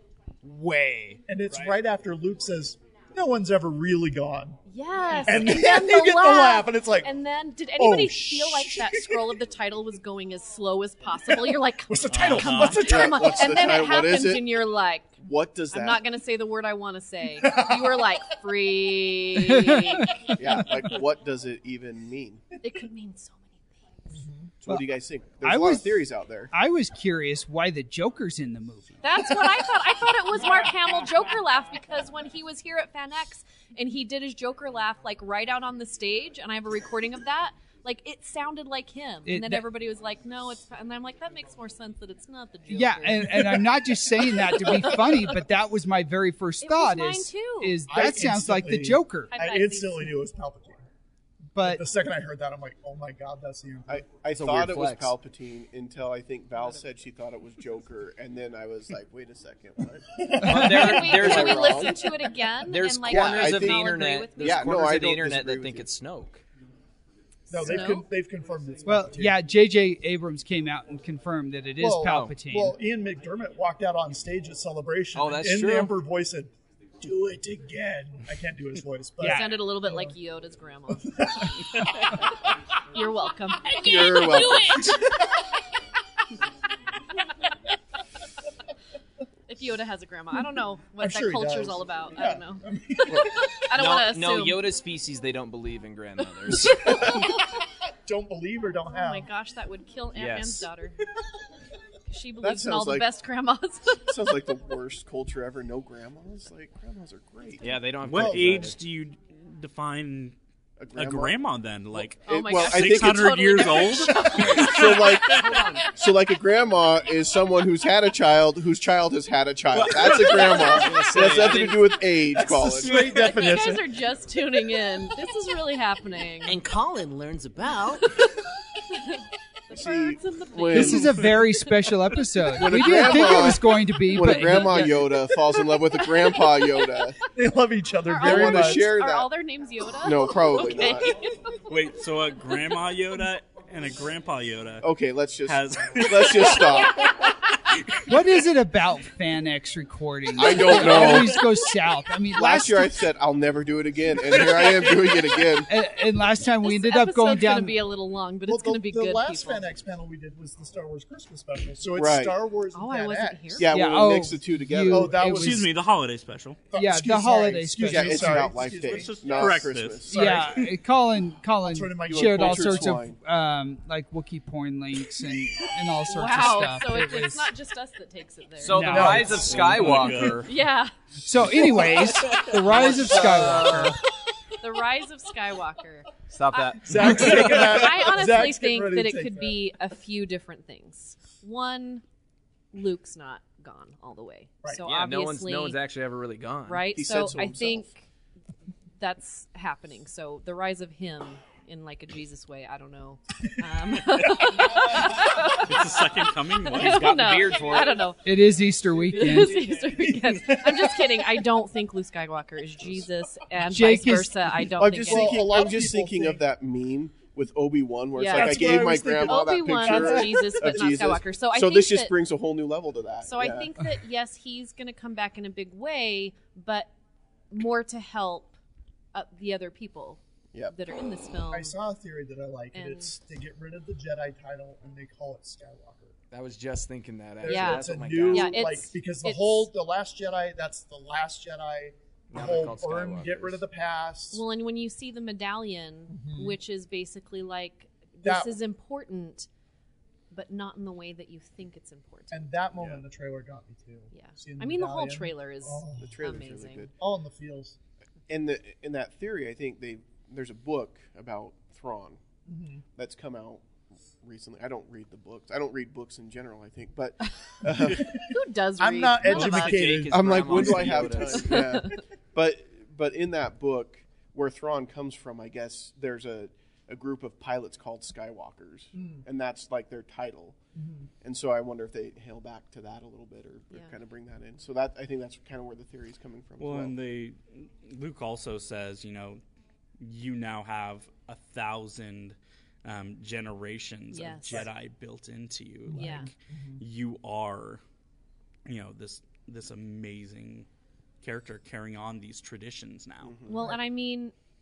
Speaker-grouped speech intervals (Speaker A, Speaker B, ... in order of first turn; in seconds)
Speaker A: 0.4-1.8, 209.1-210.2
Speaker B: 1.3-4.6, 5.2-7.1, 7.8-9.4, 11.4-13.4, 17.4-18.0, 24.1-24.5, 47.9-50.8, 51.6-54.0, 60.2-61.0, 67.5-69.4, 71.8-80.1, 81.2-81.5, 91.0-93.4, 96.6-97.3, 98.0-99.3, 108.0-108.7, 122.3-123.9, 137.3-138.9, 158.4-164.1, 164.9-165.8, 166.7-170.6, 171.6-173.0, 178.9-180.1, 181.5-181.9, 186.8-189.6, 210.2-211.4, 215.1-216.4, 218.2-221.0, 231.5-236.1, 237.4-244.4, 246.1-246.6, 248.2-248.6, 252.3-256.2, 257.0-257.8, 262.4-262.8, 267.6-268.2, 268.8-271.2, 278.9-279.2, 280.8-281.1, 295.9-296.8
Speaker C: 4.6-20.3, 22.6-24.2, 29.0-43.7, 44.3-45.4, 46.6-47.8, 49.3-50.1, 60.5-64.7, 67.6-68.1, 79.2-81.2, 82.9-85.1, 89.5-92.6, 93.2-94.7, 98.9-101.0, 102.1-104.2, 112.2-115.9, 120.2-121.1, 122.8-126.6, 128.9-132.2, 134.7-136.9, 138.0-141.6, 146.6-147.3, 156.6-159.7, 162.7-163.8, 176.1-179.2, 180.3-180.9, 184.6-192.0, 192.7-195.8, 196.7-198.0, 199.0-215.5, 218.2-222.2, 223.2-226.9, 227.5-228.5, 229.1-231.8, 232.7-233.1, 237.4-239.7, 244.3-249.5, 250.3-252.5, 254.1-256.9, 268.2-269.9, 271.2-272.0, 294.1-294.7, 295.9-296.3, 303.4-304.3
Speaker D: 12.1-12.9, 108.0-110.3, 110.9-115.5, 141.7-144.9, 145.4-146.8, 165.3-166.6, 168.8-170.6, 179.3-180.5, 205.6-207.2, 286.6-289.4, 290.0-297.8, 298.6-300.7, 301.2-303.4
Speaker E: 12.9-14.6, 15.2-16.0, 20.3-22.4, 24.6-26.5, 53.9-60.2, 60.9-62.0, 63.0-65.9, 83.8-84.9, 102.4-103.1, 104.1-107.8, 110.8-111.3, 111.9-113.8, 114.5-115.4, 115.9-123.1, 129.7-131.3, 132.6-137.2, 138.2-139.3, 140.0-141.1, 144.8-147.0, 150.3-151.4, 152.3-155.7, 161.9-162.4, 163.6-165.3, 167.9-170.5, 172.1-173.2, 196.9-197.9, 214.8-223.7, 252.7-253.0, 256.0-256.9, 258.3-262.2, 262.9-263.6, 264.2-268.2, 269.9-280.6, 281.2-286.9, 303.2-303.7
Speaker F: 25.4-26.0, 26.5-29.1, 39.2-39.7, 42.7-49.3, 51.5-51.8, 68.8-72.8, 79.2-79.6, 130.7-135.0, 148.1-152.9, 155.7-157.8, 163.7-165.7, 166.7-168.5, 170.1-177.5, 178.7-179.3, 181.2-184.0, 208.2-209.6, 213.7-214.6
Speaker G: 54.3-55.1, 60.4-61.9, 62.6-66.4, 72.0-72.3, 75.1-75.9, 93.1-97.0, 100.1-100.7, 107.6-108.8, 119.7-122.4, 178.6-180.5, 182.5-184.0, 186.3-187.6, 194.8-196.8, 206.7-208.1, 236.3-238.8, 242.3-243.6, 269.2-271.6
Speaker H: 115.5-115.8, 126.4-128.1